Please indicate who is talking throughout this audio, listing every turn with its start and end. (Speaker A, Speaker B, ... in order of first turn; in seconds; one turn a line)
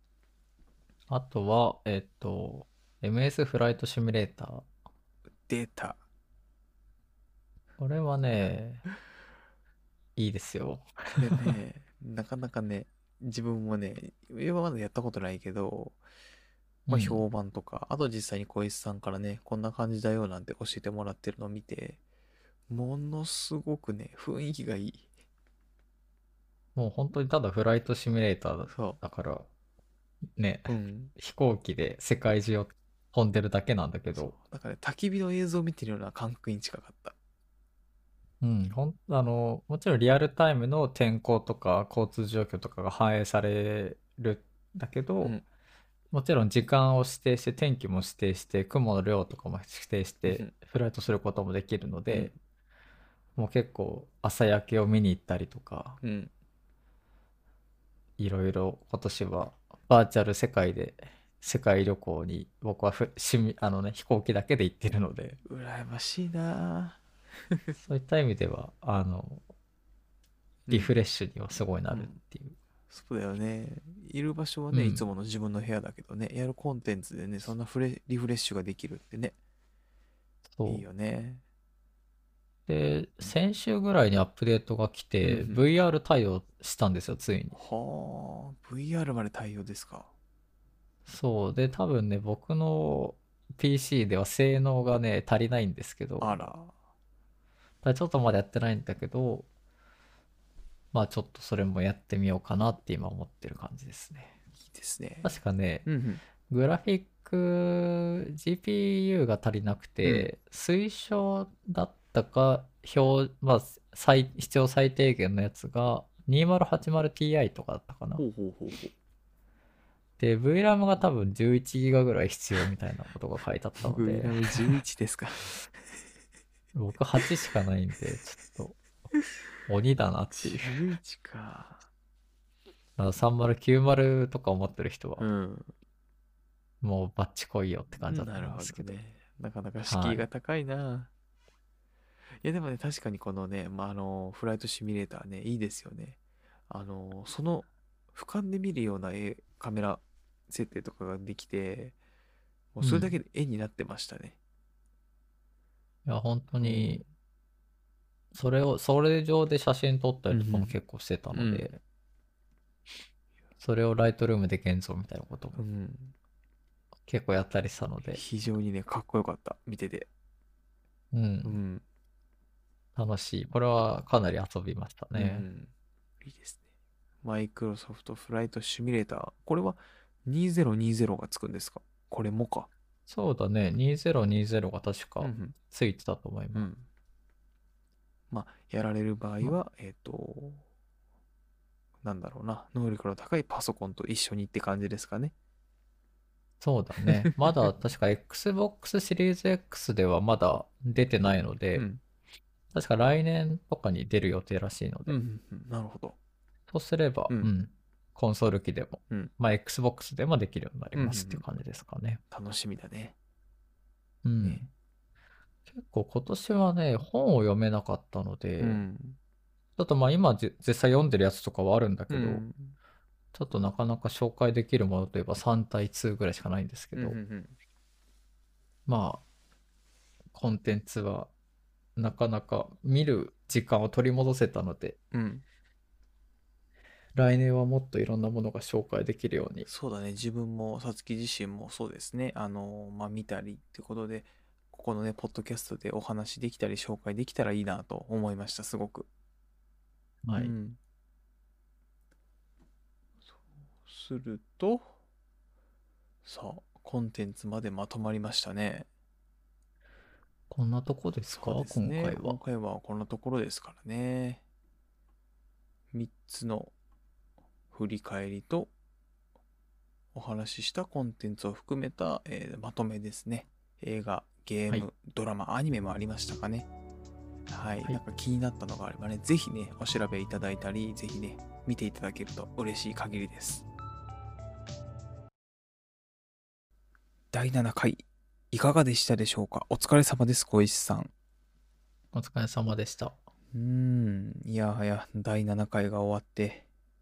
Speaker A: 1.1-4.7
Speaker B: 5.5-6.0
Speaker A: 7.8-8.8
Speaker A: 10.2-11.5
Speaker B: 11.2-16.0
Speaker A: 16.9-17.2
Speaker B: 16.9-22.0
Speaker B: 22.7-25.1
Speaker A: 26.7-29.5
Speaker B: 28.7-29.0
Speaker A: 30.4-34.3
Speaker B: 30.7-31.1
Speaker B: 34.1-37.1
Speaker A: 38.4-45.4
Speaker A: 46.1-52.3
Speaker B: 50.3-50.5
Speaker B: 52.1-52.4
Speaker A: 53.4-56.0
Speaker B: 56.0-56.3
Speaker A: 58.2-65.4
Speaker B: 65.4-67.0
Speaker A: 67.8-69.4
Speaker B: 70.7-71.0
Speaker A: 70.7-72.5
Speaker B: 71.9-72.2
Speaker B: 72.9-79.3
Speaker A: 74.7-75.0
Speaker A: 80.5-80.8
Speaker B: 80.6-81.4
Speaker A: 82.7-87.6
Speaker B: 85.2-85.6
Speaker B: 87.5-90.1
Speaker A: 91.1-96.4
Speaker B: 96.2-96.7
Speaker A: 97.8-99.5
Speaker A: 100.9-104.3
Speaker B: 104.6-105.3
Speaker A: 105.2-105.9
Speaker B: 105.8-106.2
Speaker A: 106.5-118.2
Speaker B: 110.0-110.3
Speaker B: 118.2-118.9
Speaker A: 120.2-124.3
Speaker B: 123.8-125.6
Speaker A: 126.7-128.8
Speaker A: 129.7-130.8
Speaker B: 130.4-131.9
Speaker A: 133.0-135.2
Speaker B: 135.2-135.7
Speaker A: 136.8-138.9
Speaker B: 138.1-141.1
Speaker A: 139.9-140.2
Speaker B: 142.4-151.9
Speaker B: 152.7-154.4
Speaker A: 152.8-153.1
Speaker A: 156.0-157.0
Speaker B: 156.6-157.1
Speaker A: 158.3-161.8
Speaker B: 160.3-160.7
Speaker B: 161.3-161.7
Speaker A: 163.6-165.6
Speaker B: 165.5-166.1
Speaker A: 167.1-168.2
Speaker B: 168.1-170.1
Speaker A: 171.1-171.6
Speaker B: 171.4-171.8
Speaker A: 172.9-175.5
Speaker B: 175.1-176.6
Speaker B: 177.2-182.7
Speaker A: 183.1-186.7
Speaker B: 185.2-185.5
Speaker B: 186.5-186.8
Speaker B: 188.3-190.6
Speaker B: 192.0-195.3
Speaker A: 196.6-201.8
Speaker B: 197.0-197.7
Speaker B: 201.7-202.0
Speaker A: 202.7-205.2
Speaker B: 205.1-206.2
Speaker A: 206.7-212.2
Speaker B: 210.9-211.4
Speaker B: 212.3-213.1
Speaker A: 214.2-214.7
Speaker A: 215.7-218.8
Speaker B: 218.6-219.2
Speaker A: 219.8-222.4
Speaker B: 222.1-222.8
Speaker A: 223.3-227.2
Speaker B: 226.9-227.5
Speaker A: 228.8-229.2
Speaker A: 230.3-231.3
Speaker A: 231.9-235.0
Speaker B: 235.1-235.4
Speaker A: 237.1-239.7
Speaker B: 239.7-249.1
Speaker A: 250.2-250.5
Speaker B: 250.3-250.8
Speaker B: 253.8-254.9
Speaker B: 256.2-258.9
Speaker A: 260.5-262.4
Speaker B: 261.3-264.4
Speaker B: 265.9-266.7
Speaker B: 267.7-268.7
Speaker B: 270.1-276.7
Speaker B: 277.5-283.6
Speaker B: 287.3-291.1
Speaker A: 292.1-293.2
Speaker B: 293.5-296.6